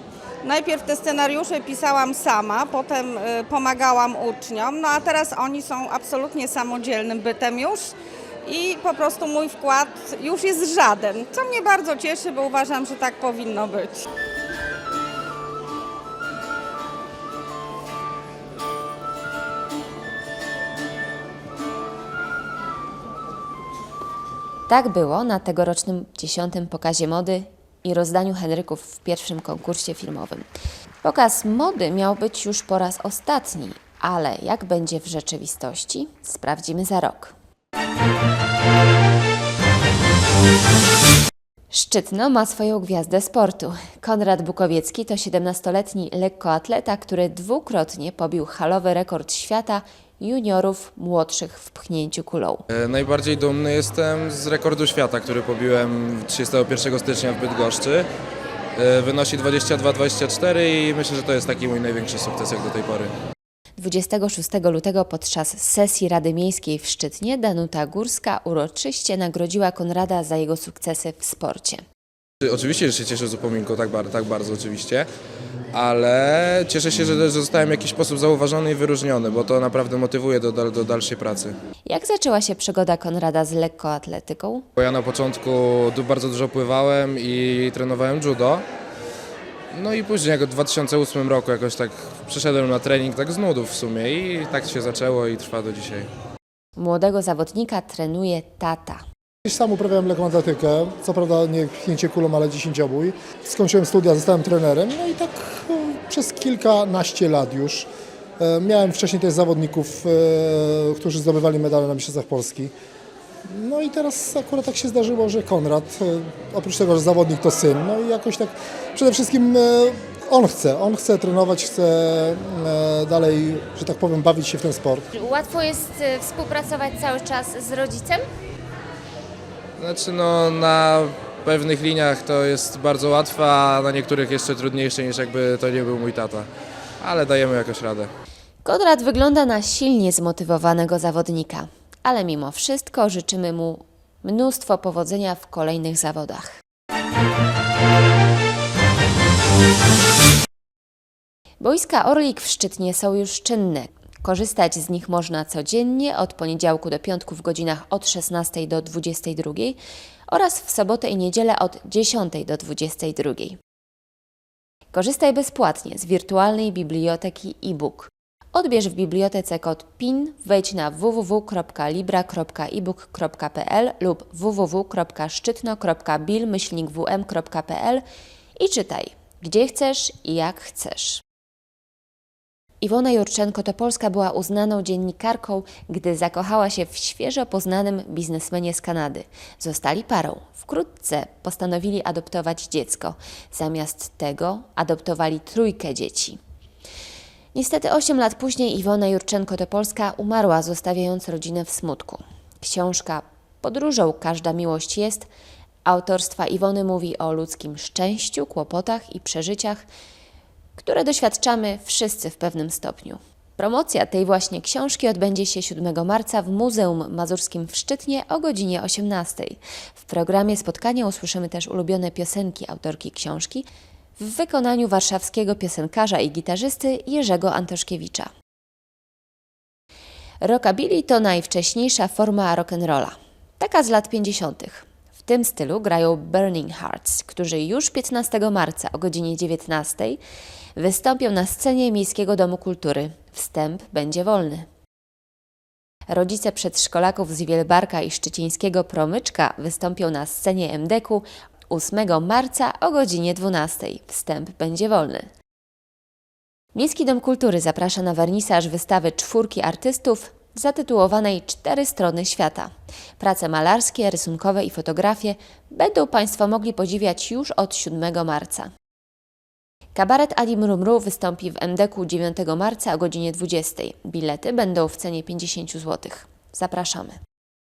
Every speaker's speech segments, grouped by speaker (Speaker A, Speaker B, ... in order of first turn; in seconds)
Speaker A: 0.4-7.9, 8.4-14.0
Speaker B: 24.7-30.4, 31.0-37.3, 41.7-52.6, 63.8-71.8, 81.9-84.6, 96.8-99.0, 125.1-128.2, 138.6-146.5, 151.6-159.8, 160.3-163.6, 164.9-178.0, 178.6-181.2, 182.8-196.4, 197.5-205.3, 205.8-209.8, 210.8-223.7, 224.2-228.3, 230.4-240.2, 240.8-244.7, 246.1-255.3, 256.7-268.7, 269.9-277.2
Speaker C: 52.7-58.0, 58.8-63.1, 72.5-75.0, 75.7-81.5, 84.8-88.6, 89.7-96.1, 129.8-136.4, 137.0-138.1
Speaker D: 99.4-112.7, 113.5-125.1